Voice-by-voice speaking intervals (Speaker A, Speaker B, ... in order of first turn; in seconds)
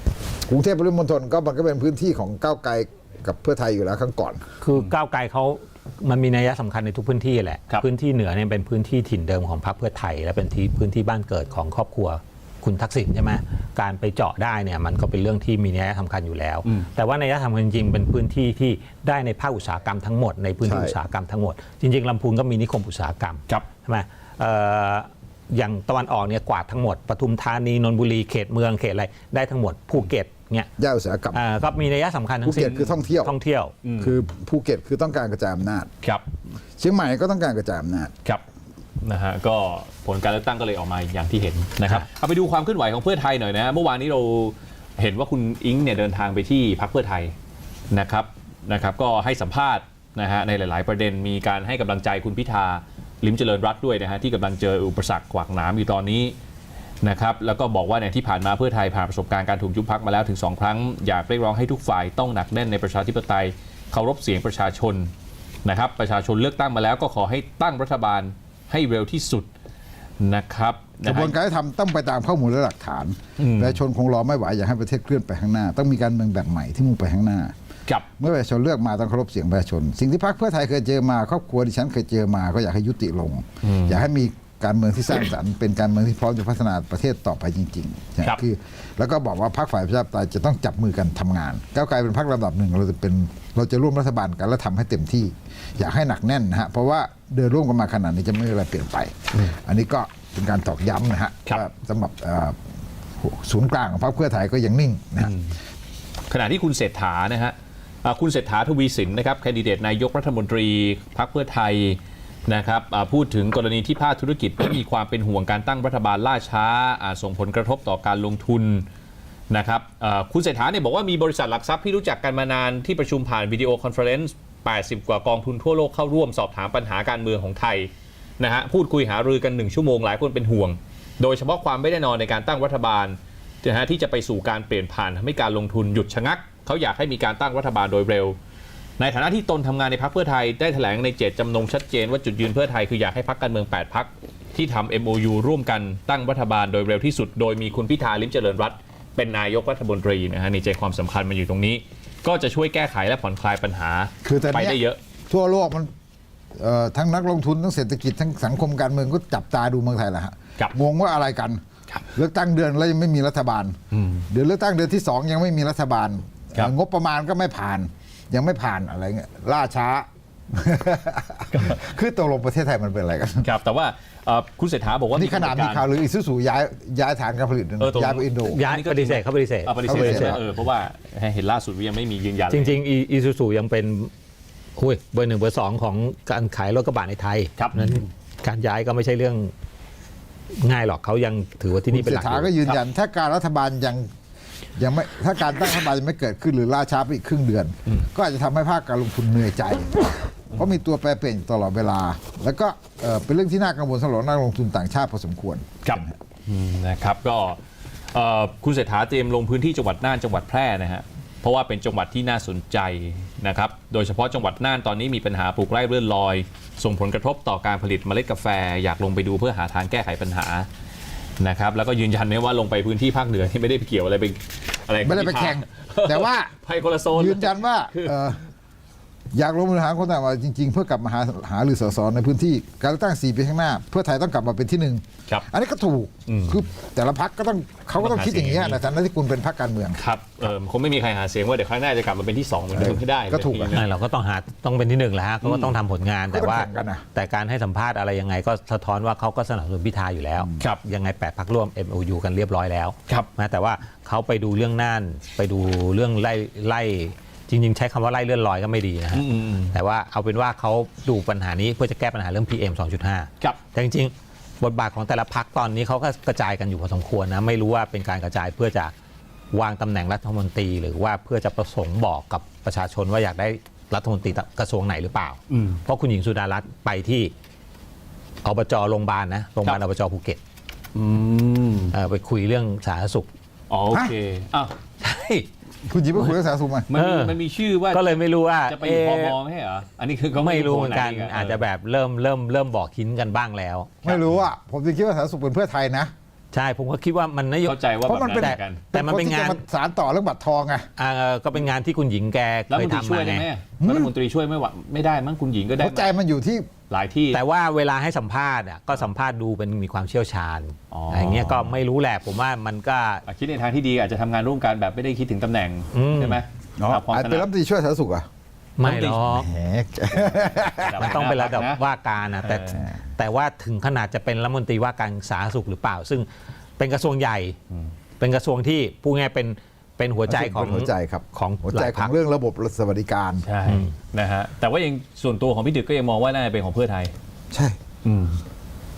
Speaker A: 0.5-4.5, 20.6-20.9, 30.8-31.4, 32.4-33.3, 34.0-35.9, 36.8-38.1, 71.0-77.5, 78.2-102.6, 103.2-105.3, 154.2-155.9, 156.6-161.6, 162.1-163.8, 164.3-173.5, 175.1-178.6, 179.8-180.4, 191.9-194.1, 194.8-206.2, 225.0-226.5, 227.1-228.4, 229.3-240.0, 242.7-243.8, 246.3-247.0, 285.9-286.9, 294.0-296.1, 298.1-300.9, 303.8-304.1, 305.8-306.7, 316.8-318.3, 319.3-321.1, 330.3-333.5, 337.5-337.8
Speaker B: 4.6-30.7, 31.3-33.7, 178.4-180.4, 182.5-184.1, 184.8-189.5, 190.6-192.6, 243.7-268.9, 269.5-277.3, 278.4-280.4, 281.9-283.3, 286.9-287.4, 287.9-289.4, 290.4-294.0, 296.5-297.8, 298.3-299.6, 301.0-303.4, 307.3-313.2, 315.9-316.4, 318.8-319.5, 320.9-326.3, 326.8-327.6, 328.2-332.1, 333.6-333.9
Speaker C: 33.8-34.2, 39.0-47.3, 47.9-56.3, 57.0-65.1, 65.6-69.5, 70.2-71.3, 73.4-73.8, 83.6-84.0, 105.2-105.5, 106.3-118.8, 119.5-138.4, 139.0-155.0, 163.9-164.3, 171.5-171.8, 173.4-175.9, 177.8-182.8, 187.6-188.0, 205.8-207.6, 208.1-220.7, 221.4-228.3, 236.3-236.6, 238.0-238.8, 239.9-243.9, 245.4-245.8, 259.1-259.7, 275.5-275.8, 280.9-281.9, 283.7-285.5, 286.9-288.1, 288.6-291.6, 294.0-294.4, 297.6-298.9, 302.7-306.1, 306.9-307.4, 310.9-311.8, 313.2-317.5, 318.8-319.4, 320.6-321.8, 322.4-322.8, 333.4-337.1, 338.0-338.4